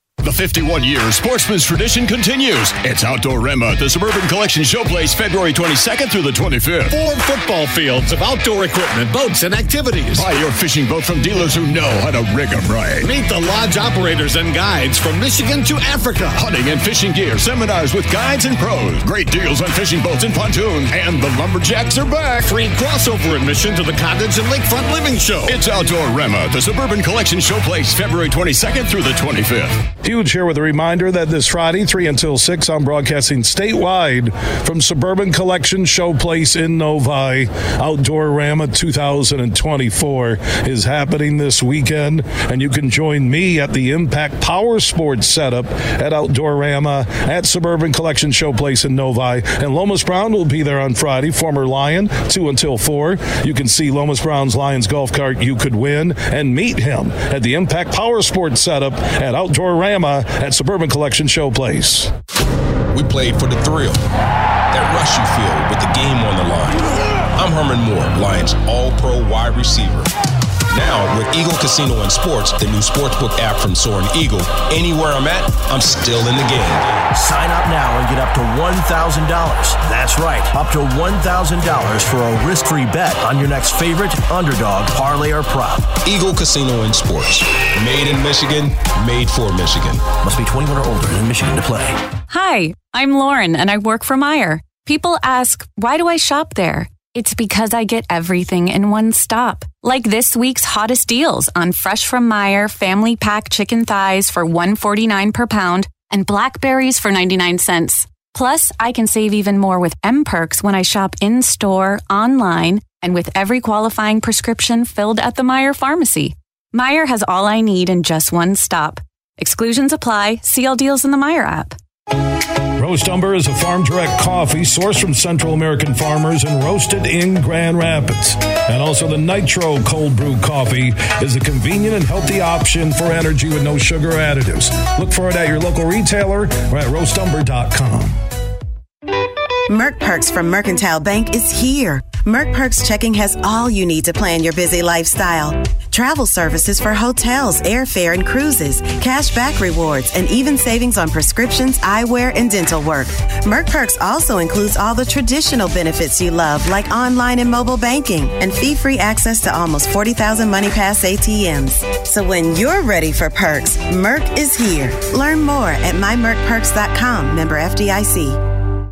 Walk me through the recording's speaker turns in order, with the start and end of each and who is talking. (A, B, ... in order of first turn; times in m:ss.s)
0:00.2-0:06.9 A
0:06.9-0:10.2 B
0:10.2-0:13.1 A
0:13.0-0:16.4 B
0:16.4-0:22.5 A
0:22.4-0:25.6 B
0:25.4-0:29.7 A
0:30.0-1:02.1 C
1:02.9-1:04.0 D
1:04.7-1:10.1 D
1:10.7-1:16.8 D
1:17.1-1:25.9 E
1:26.0-1:30.1 D
1:30.2-1:32.0 E
1:32.3-2:01.8 F
2:02.8-2:18.2 C
2:19.7-2:48.4 G